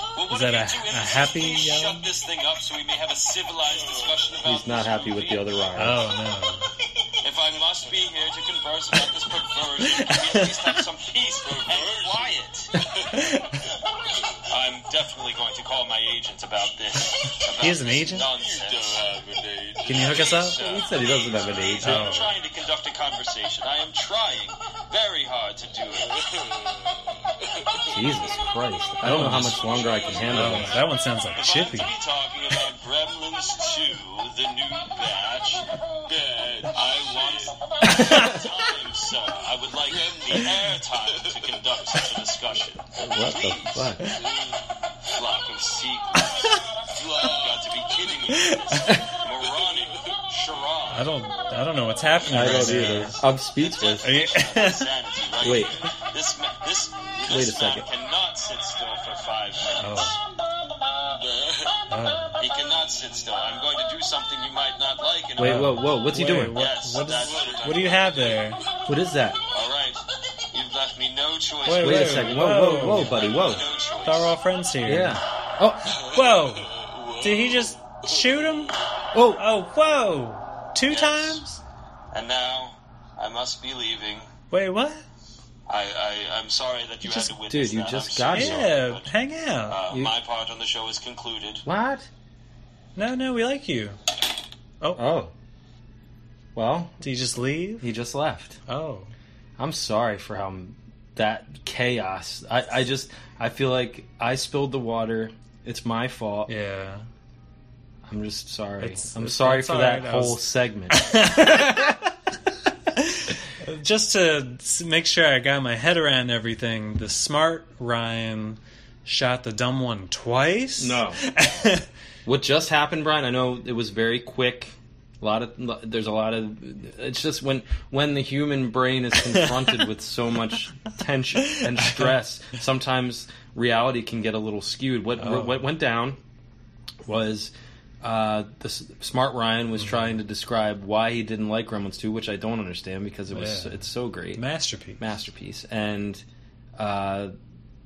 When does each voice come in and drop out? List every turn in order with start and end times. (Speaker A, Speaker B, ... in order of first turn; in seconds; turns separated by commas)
Speaker A: 0.1-5.7, Speaker B: 0.3-2.1, Speaker C: 4.4-6.0, Speaker B: 5.8-6.7, Speaker A: 7.2-13.2, Speaker B: 9.8-10.8, Speaker B: 13.1-13.4, Speaker A: 14.5-26.8, Speaker B: 17.6-18.3, Speaker B: 19.9-20.6, Speaker C: 20.4-22.1, Speaker B: 21.8-22.3, Speaker C: 27.9-30.8, Speaker B: 29.0-29.6, Speaker A: 29.2-44.5, Speaker B: 30.3-31.9, Speaker C: 37.9-38.4, Speaker B: 38.0-38.3, Speaker C: 43.0-44.0, Speaker A: 45.1-51.0, Speaker B: 50.9-53.2, Speaker C: 52.3-54.2, Speaker A: 52.4-52.8, Speaker A: 53.6-60.2, Speaker B: 54.0-54.9, Speaker C: 55.4-55.8, Speaker C: 57.2-57.9, Speaker B: 59.8-60.2, Speaker A: 61.1-61.8, Speaker B: 61.9-62.4, Speaker A: 62.4-68.6, Speaker C: 65.4-66.6, Speaker B: 65.4-68.6, Speaker C: 68.9-69.4, Speaker A: 69.5-74.3, Speaker B: 71.7-73.2, Speaker C: 71.8-73.7, Speaker B: 74.0-75.2, Speaker C: 74.8-75.9, Speaker A: 75.9-78.4, Speaker B: 76.1-78.8, Speaker C: 79.1-79.4, Speaker B: 79.3-81.6, Speaker A: 80.9-81.4, Speaker A: 82.1-84.3, Speaker B: 84.5-85.0, Speaker A: 85.7-89.1, Speaker C: 87.5-88.8, Speaker B: 88.3-89.8, Speaker A: 89.7-91.7, Speaker C: 89.9-90.2, Speaker C: 91.7-92.1, Speaker B: 93.0-94.0, Speaker C: 95.0-95.3, Speaker C: 96.5-96.9, Speaker B: 97.0-97.9, Speaker C: 97.8-98.6, Speaker B: 98.7-99.1, Speaker C: 99.6-106.5, Speaker B: 106.5-107.1, Speaker C: 108.1-112.0, Speaker B: 108.8-112.0, Speaker B: 113.0-121.9, Speaker C: 120.8-121.2, Speaker C: 122.2-136.2, Speaker B: 131.5-132.1, Speaker B: 135.2-135.7, Speaker C: 137.1-144.4, Speaker B: 139.8-140.2, Speaker B: 143.3-145.0, Speaker C: 145.0-146.2, Speaker C: 146.8-147.3